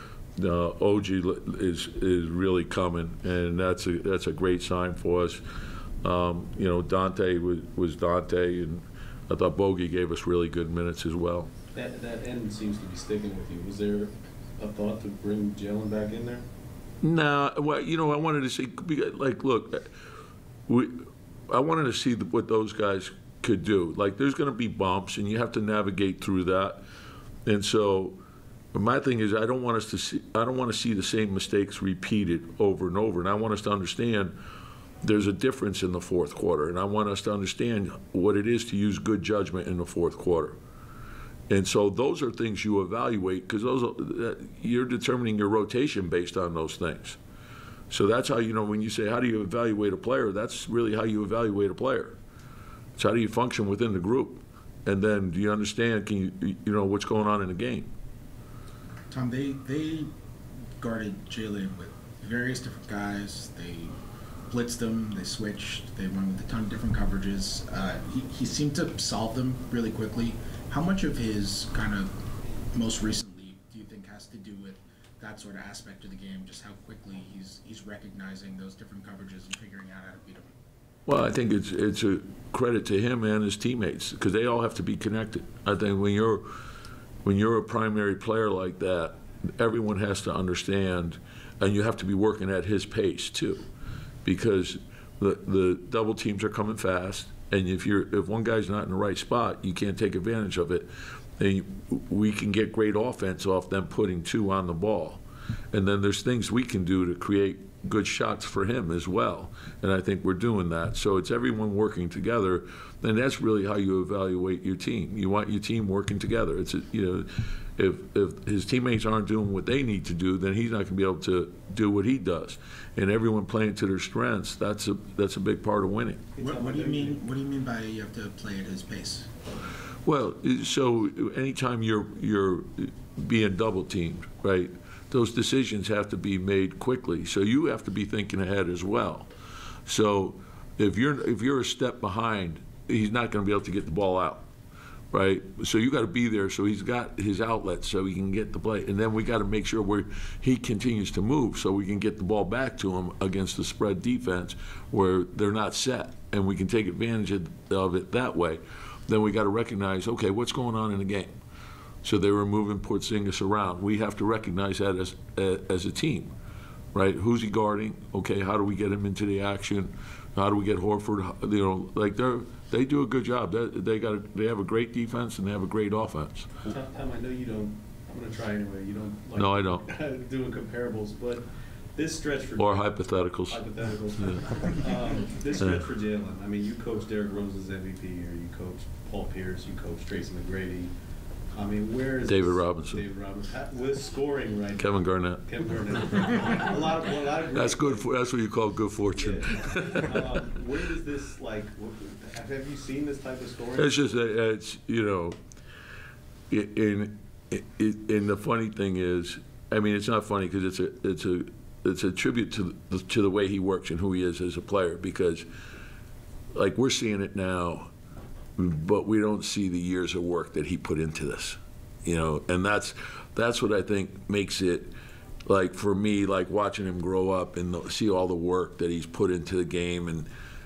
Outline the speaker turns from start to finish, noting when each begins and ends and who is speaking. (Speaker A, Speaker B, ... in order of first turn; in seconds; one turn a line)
Speaker A: 0.3-5.4
Speaker A: 6.0-11.5
Speaker B: 11.7-16.4
Speaker A: 17.0-19.9
Speaker A: 20.7-26.8
Speaker A: 27.4-28.2
Speaker A: 28.7-34.4
Speaker A: 35.0-40.5
Speaker A: 41.5-47.2
Speaker A: 47.9-52.1
Speaker A: 53.0-57.9
Speaker C: 59.1-60.1
Speaker C: 60.8-63.9
Speaker C: 64.5-72.1
Speaker C: 72.7-80.5
Speaker A: 81.0-86.5
Speaker A: 87.2-93.6
Speaker A: 94.2-126.2
Speaker B: 126.3-127.2
Speaker C: 126.4-129.3
Speaker A: 130.0-139.3
Speaker A: 139.8-144.5
Speaker A: 145.1-161.3
Speaker A: 162.0-166.3
Speaker A: 166.9-176.5
Speaker B: 176.7-190.9
Speaker A: 179.3-179.8
Speaker A: 182.6-183.6
Speaker A: 185.6-185.8
Speaker B: 191.5-198.1
Speaker A: 192.2-193.0
Speaker A: 194.8-195.4
Speaker A: 197.5-200.2
Speaker B: 199.1-204.2
Speaker A: 203.7-205.4
Speaker A: 206.5-215.4
Speaker A: 216.5-217.9
Speaker A: 218.6-224.9
Speaker A: 225.4-230.3